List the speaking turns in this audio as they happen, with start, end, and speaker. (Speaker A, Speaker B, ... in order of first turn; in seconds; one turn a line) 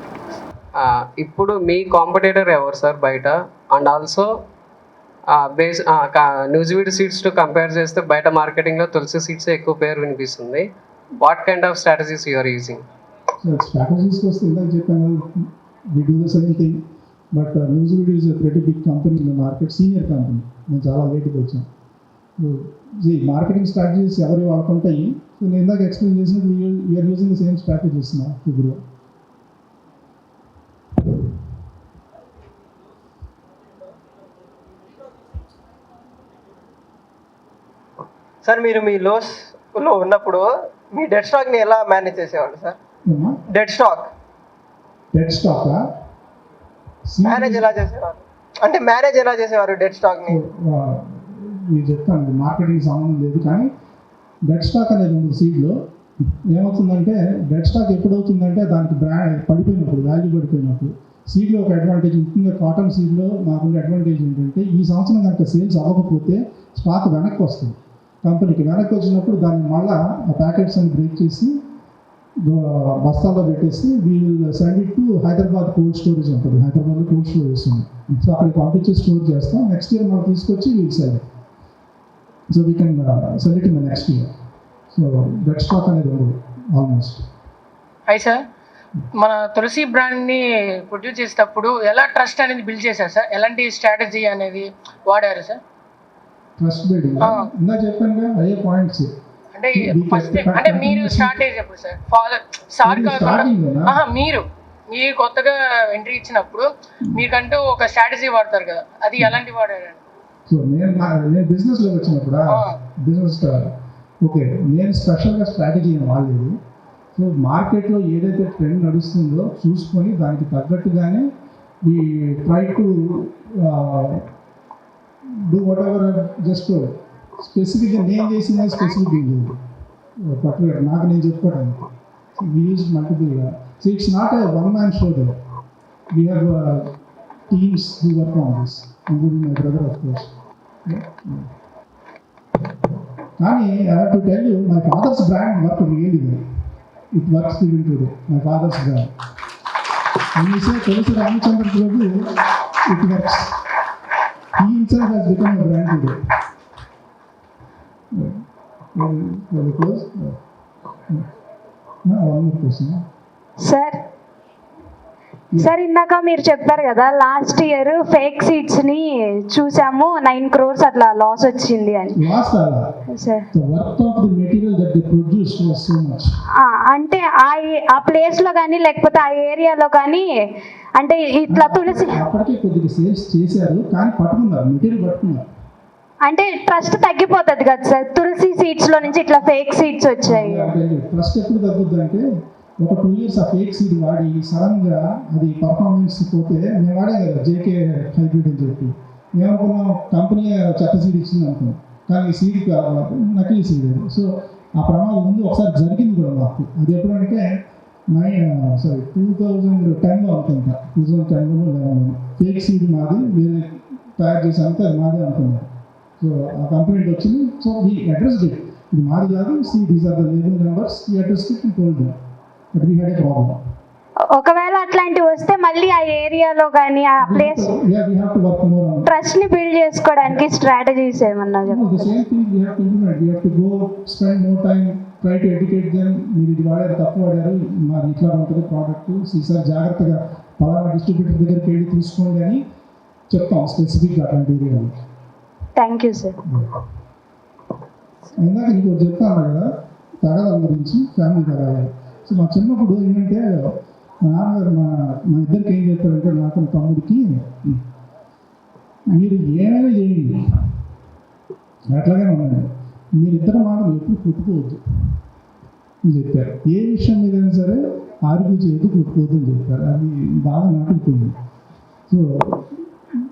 Speaker A: 0.7-4.3
Speaker A: 5.3-10.7
Speaker A: 11.2-12.8
Speaker B: 13.4-16.8
Speaker B: 17.3-21.7
Speaker B: 22.4-28.8
Speaker C: 38.4-42.8
Speaker B: 43.0-43.4
Speaker C: 43.5-44.1
Speaker B: 45.1-45.8
Speaker B: 47.1-47.7
Speaker C: 47.2-50.4
Speaker B: 50.2-53.7
Speaker B: 54.4-55.8
Speaker B: 56.4-71.6
Speaker B: 72.4-81.2
Speaker B: 82.5-84.3
Speaker B: 84.9-87.2
Speaker D: 88.1-88.4
Speaker D: 89.2-95.6
Speaker B: 96.6-99.1
Speaker D: 99.5-110.0
Speaker B: 99.7-101.4
Speaker B: 102.8-104.0
Speaker B: 110.5-116.5
Speaker B: 117.2-121.2
Speaker B: 121.8-124.3
Speaker B: 125.4-129.5
Speaker B: 130.2-135.3
Speaker B: 136.1-136.9
Speaker B: 137.5-140.3
Speaker B: 140.8-141.5
Speaker B: 143.4-146.4
Speaker B: 147.1-149.1
Speaker B: 150.3-152.3
Speaker B: 152.9-153.6
Speaker B: 154.6-156.2
Speaker B: 158.1-158.4
Speaker B: 158.9-160.4
Speaker B: 162.0-163.0
Speaker E: 163.6-164.0
Speaker E: 165.5-172.2
Speaker B: 172.1-172.8
Speaker E: 173.1-173.4
Speaker B: 173.5-176.3
Speaker E: 176.6-180.3
Speaker E: 181.0-182.2
Speaker B: 181.5-185.4
Speaker E: 186.2-190.7
Speaker B: 189.0-189.2
Speaker B: 190.2-192.3
Speaker B: 192.8-207.5
Speaker B: 208.1-215.7
Speaker B: 216.2-222.1
Speaker B: 222.7-223.6
Speaker E: 224.3-227.7
Speaker B: 227.2-229.1
Speaker E: 229.1-232.1
Speaker B: 231.6-242.6
Speaker B: 243.3-244.9
Speaker E: 245.8-246.4
Speaker B: 246.5-246.7
Speaker B: 248.4-249.7
Speaker B: 250.2-257.8
Speaker B: 259.1-260.7
Speaker B: 261.9-265.2
Speaker B: 266.0-271.4
Speaker B: 272.1-272.8